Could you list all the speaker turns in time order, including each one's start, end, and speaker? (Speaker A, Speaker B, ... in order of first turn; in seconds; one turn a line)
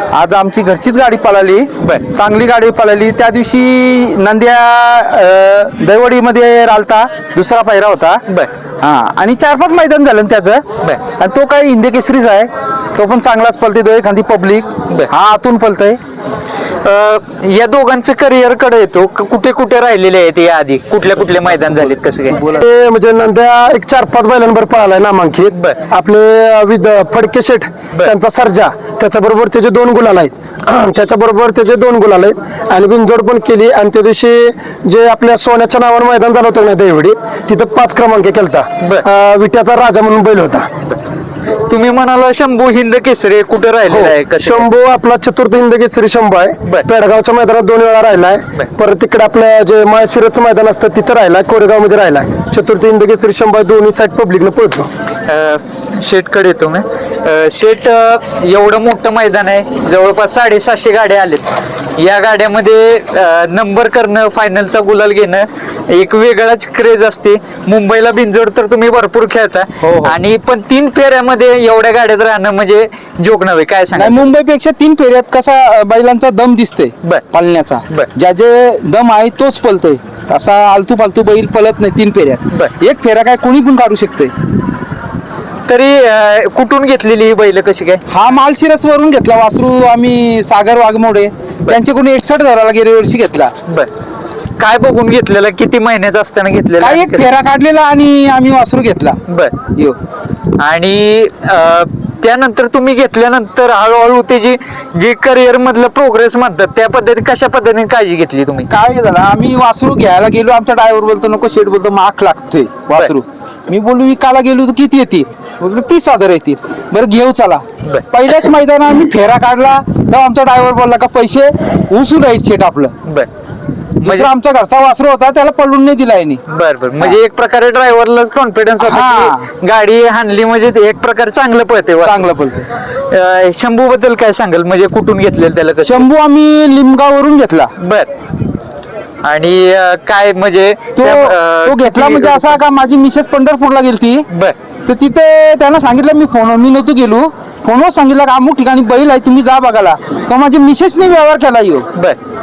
Speaker A: 0.1-8.2
Speaker B: 1.8-2.0
Speaker A: 8.8-10.6
Speaker A: 11.2-16.0
Speaker B: 16.8-22.4
Speaker C: 22.4-40.7
Speaker B: 25.5-25.8
Speaker B: 41.6-44.7
Speaker C: 43.9-54.9
Speaker B: 55.2-74.3
Speaker A: 69.8-70.2
Speaker A: 73.9-84.3
Speaker B: 85.7-88.0
Speaker A: 88.1-93.5
Speaker B: 94.6-97.3
Speaker A: 96.8-99.2
Speaker B: 99.3-99.6
Speaker B: 100.5-108.7
Speaker A: 108.7-122.9
Speaker B: 124.0-124.3
Speaker A: 124.0-126.4
Speaker B: 126.5-132.3
Speaker A: 128.8-129.4
Speaker A: 132.0-132.7
Speaker B: 132.9-136.1
Speaker A: 135.8-137.7
Speaker B: 137.8-138.1
Speaker B: 139.2-142.6
Speaker A: 141.0-144.2
Speaker B: 144.3-144.5
Speaker A: 144.8-151.9